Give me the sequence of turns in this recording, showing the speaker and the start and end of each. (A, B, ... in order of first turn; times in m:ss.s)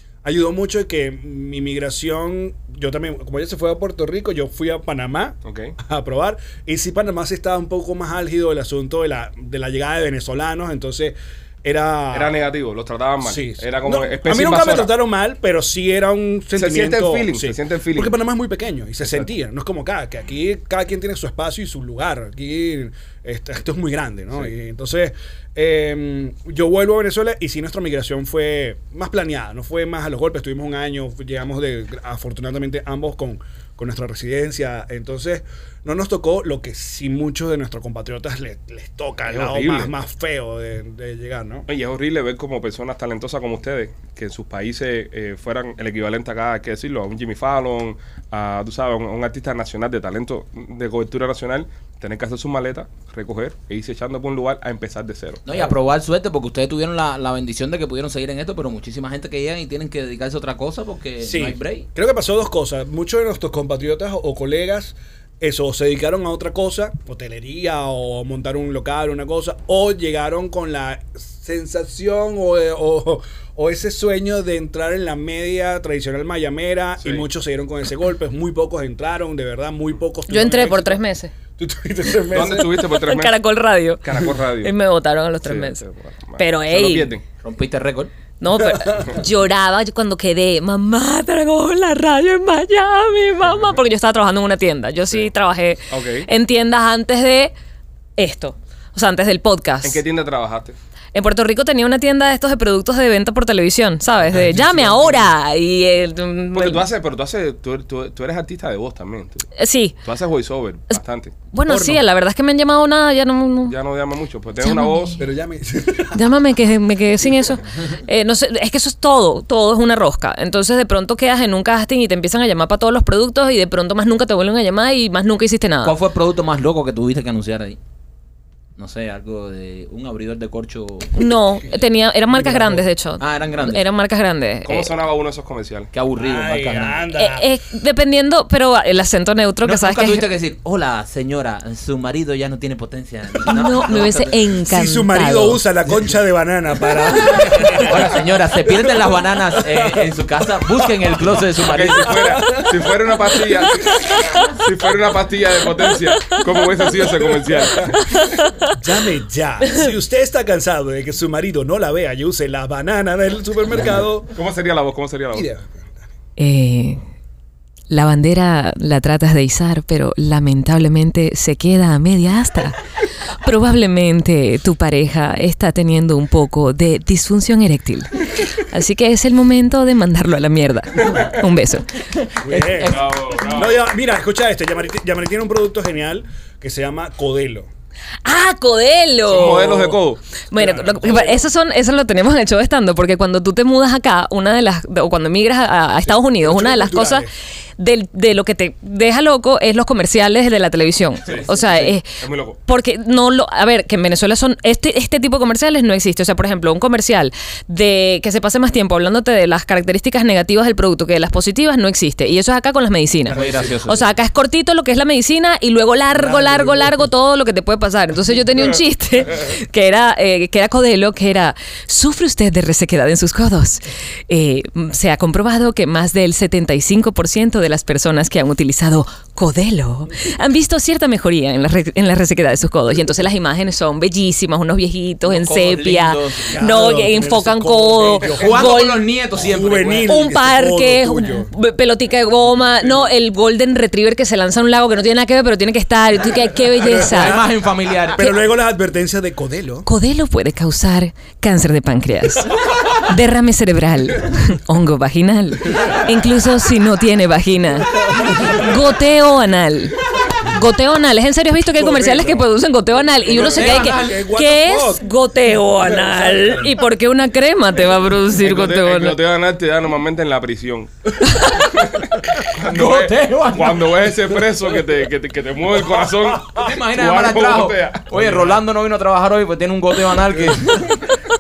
0:00.2-0:12.3 A
0:05.4-0:05.8 B
0:12.1-0:14.9 B
0:13.2-0:41.7 A
0:16.6-0:18.2 B
0:39.3-0:39.9 B
0:41.7-0:55.4 B
0:55.4-1:01.9 C
1:01.2-1:22.8 A
1:17.0-1:17.3 B
1:20.3-1:21.3 D
1:22.3-1:23.4 B
1:23.0-1:25.8 D
1:24.0-1:24.7 B
1:25.4-1:27.2 B
1:26.4-1:27.1 D
1:27.4-1:28.1 C
1:28.4-1:37.5 D
1:28.6-1:29.1 A
1:35.9-1:36.3 B
1:38.2-1:40.0 D
1:39.8-1:40.8 B
1:41.1-1:46.9 D
1:44.3-1:45.3 A
1:46.5-1:49.5 B
1:49.6-1:50.0 D
1:50.0-1:51.4 B
1:51.5-1:53.8 D
1:51.7-1:52.0 A
1:53.7-1:55.1 B
1:54.6-1:55.2 D
1:55.2-1:56.2 A
1:56.1-2:06.0 D
2:05.8-2:07.8 C
2:08.8-2:11.2 C
2:11.1-2:14.9 D
2:12.3-2:12.9 A
2:13.2-2:13.8 C
2:14.6-2:15.9 B
2:15.9-2:17.0 C
2:16.2-2:17.5 A
2:17.2-2:20.2 D
2:19.6-2:24.4 C
2:23.4-2:25.6 D
2:24.6-2:30.1 A
2:27.2-2:32.2 C
2:31.7-2:38.0 B
2:32.1-2:34.2 A
2:37.3-2:37.9 A
2:38.1-2:38.5 D
2:38.7-2:44.3 A
2:44.3-2:45.5 B
2:45.3-2:46.1 A
2:46.4-2:47.0 D
2:47.9-2:52.8 D
2:53.4-3:02.3 D
3:02.4-3:07.7 A
3:02.5-3:02.9 C
3:02.8-3:03.8 B
3:08.2-3:10.0 D
3:09.3-3:10.3 B
3:10.5-3:17.3 D
3:10.6-3:11.5 A
3:16.0-3:17.3 A
3:17.8-3:59.0 D
3:21.3-3:22.6 B
3:21.5-3:21.9 A
3:33.3-3:34.1 C
3:36.1-3:37.1 A
3:55.2-3:56.6 C
3:56.5-3:58.8 A
3:58.2-4:00.2 C
3:59.4-4:01.5 A
4:00.1-4:07.4 D
4:06.8-4:07.5 A
4:07.0-4:08.3 C
4:08.2-4:09.9 A
4:09.9-4:29.2 D
4:18.1-4:18.6 A
4:21.8-4:22.4 A
4:23.2-4:25.1 A
4:23.4-4:24.2 C
4:25.8-4:26.7 A
4:28.4-4:38.0 B
4:32.6-4:34.1 C
4:36.6-4:40.8 C
4:38.1-4:38.6 A
4:40.3-4:40.6 A